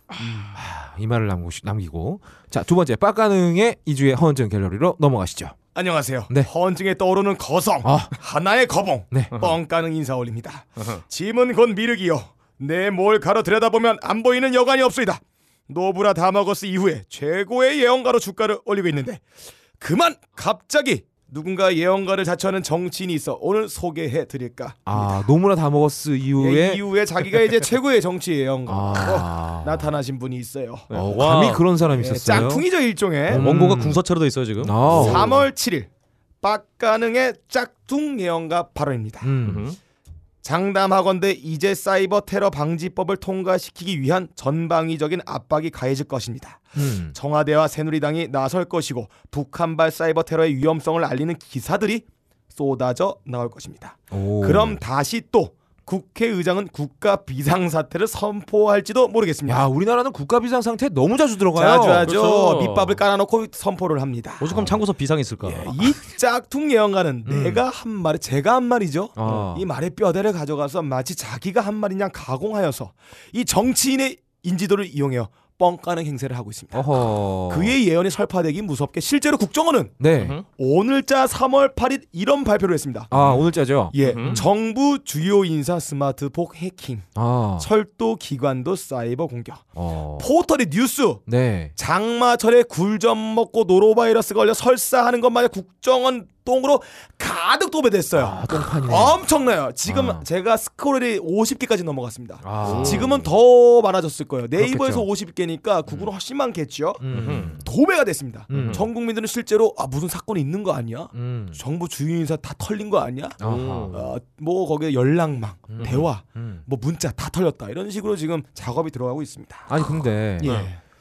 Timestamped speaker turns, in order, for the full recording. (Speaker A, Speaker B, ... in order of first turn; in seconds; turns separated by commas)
Speaker A: 0.2-0.6, Speaker B: 0.5-5.5, Speaker A: 5.7-19.3, Speaker B: 7.8-8.2, Speaker C: 10.8-11.0, Speaker A: 19.8-25.2, Speaker B: 24.9-26.8, Speaker A: 26.4-30.9, Speaker B: 28.7-29.9, Speaker C: 30.9-31.6, Speaker B: 30.9-32.7, Speaker A: 31.9-33.5, Speaker B: 33.2-34.0, Speaker C: 33.3-35.4, Speaker B: 34.6-35.3, Speaker A: 34.9-35.9, Speaker A: 36.4-39.3, Speaker B: 39.2-39.6, Speaker C: 39.4-39.8, Speaker A: 40.4-59.7, Speaker B: 46.8-47.1, Speaker B: 54.1-54.8, Speaker B: 59.5-62.1, Speaker A: 61.5-64.5, Speaker C: 62.0-63.0, Speaker C: 64.4-65.8, Speaker B: 64.5-64.8, Speaker A: 65.4-80.0, Speaker B: 67.2-67.6, Speaker B: 69.2-69.7, Speaker B: 76.7-77.8, Speaker B: 80.0-80.4, Speaker C: 80.2-80.4, Speaker A: 80.5-91.2, Speaker B: 83.1-84.5, Speaker C: 84.0-84.4, Speaker B: 87.2-87.7, Speaker B: 89.8-90.3, Speaker B: 91.3-91.7, Speaker A: 91.8-119.8, Speaker B: 98.2-99.2, Speaker B: 99.9-100.2, Speaker B: 102.4-103.3, Speaker C: 102.6-103.1, Speaker B: 104.6-105.1, Speaker B: 107.0-107.7, Speaker C: 107.1-107.6, Speaker B: 108.5-108.8, Speaker C: 108.5-108.8, Speaker B: 111.1-111.6, Speaker B: 113.4-114.0, Speaker C: 113.4-114.1, Speaker B: 115.7-116.6, Speaker C: 115.8-116.0, Speaker B: 119.7-120.6, Speaker A: 120.4-120.8, Speaker C: 120.4-120.7